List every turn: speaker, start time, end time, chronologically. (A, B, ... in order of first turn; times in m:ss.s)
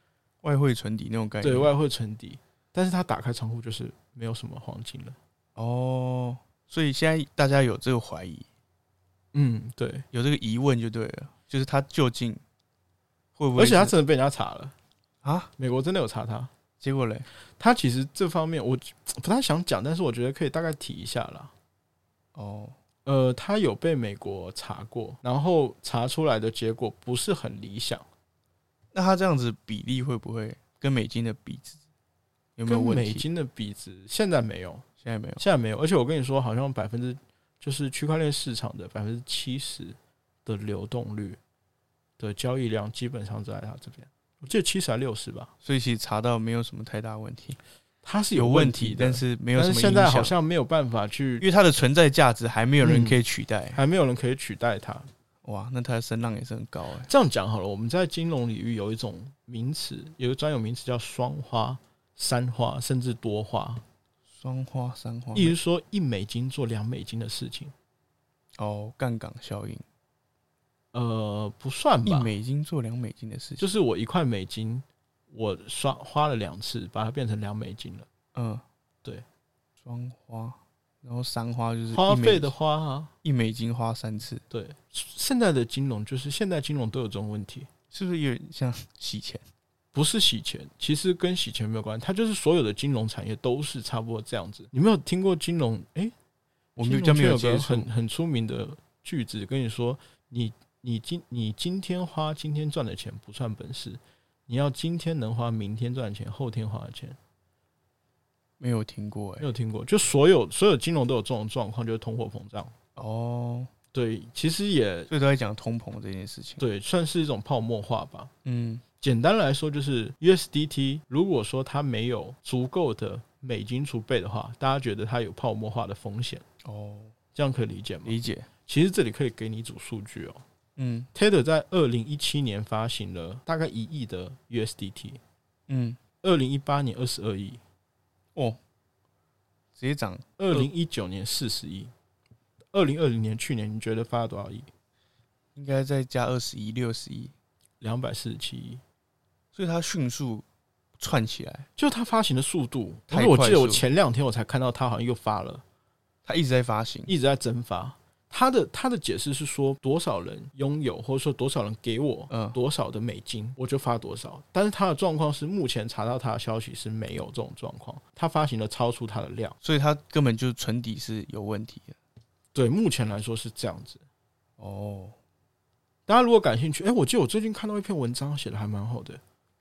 0:00.4-0:01.7 A
0:01.4-0:05.2 B
0:05.6-0:08.4 A
0:09.3-0:10.0 B
0:10.1-0:12.4 A
0:13.4-0:13.9 A
0:13.6-0:14.7 B
0:15.2-0:15.5 A
0:15.6-0:16.5 B
0:16.8-0:17.3 A
0:17.6-0:21.5 B
0:22.3-0:22.8 A
0:23.0-0:28.0 B
0:28.9-0:31.8 A
0:32.6-0:33.2 A
0:32.6-0:34.8 B
0:35.0-0:35.4 A
0:35.4-0:41.4 B
0:42.2-0:45.5 B
0:45.6-0:47.6 A
0:48.0-0:51.4 B
0:48.3-0:50.4 A
0:51.4-0:53.8 A
0:52.8-0:53.2 B
0:53.7-0:55.1 B
0:55.4-0:57.1 A
0:57.0-1:03.8 B
1:04.3-1:05.6 A
1:05.3-1:07.7 B
1:08.6-1:09.8 A
1:10.9-1:12.3 B
1:12.0-1:13.6 A
1:13.6-1:18.1 B
1:18.3-1:18.6 A
1:19.8-1:22.5 A
1:21.9-1:23.1 B
1:23.2-1:24.4 A
1:24.5-1:27.7 B
1:27.9-1:29.4 A
1:29.9-1:36.1 B
1:36.8-1:37.9 A
1:36.8-1:47.2 B
1:48.6-1:49.5 A
1:49.4-1:52.7 B
1:53.0-1:53.7 A
1:53.9-1:55.1 B
1:55.1-1:56.6 A
1:56.6-1:58.3 B
1:58.4-1:58.8 A
1:59.0-2:06.4 B
2:06.6-2:07.1 A
2:07.3-2:10.4 B
2:08.0-2:08.5 A
2:10.8-2:11.1 A
2:11.1-2:15.2 B
2:15.7-2:16.0 A
2:16.2-2:17.6 B
2:19.8-2:20.7 A
2:20.4-2:21.9 B
2:22.7-2:24.7 B
2:25.5-2:27.3 A
2:27.8-2:28.8 B
2:29.5-2:30.4 A
2:31.0-2:31.7 A
2:31.8-2:35.6 B
2:33.1-2:33.8 A
2:36.2-2:37.1 A
2:37.1-2:49.6 B
2:42.3-2:42.6 A
2:49.6-2:52.0 A
2:52.5-2:54.0 B
2:54.6-2:55.1 A
2:56.1-2:59.2 B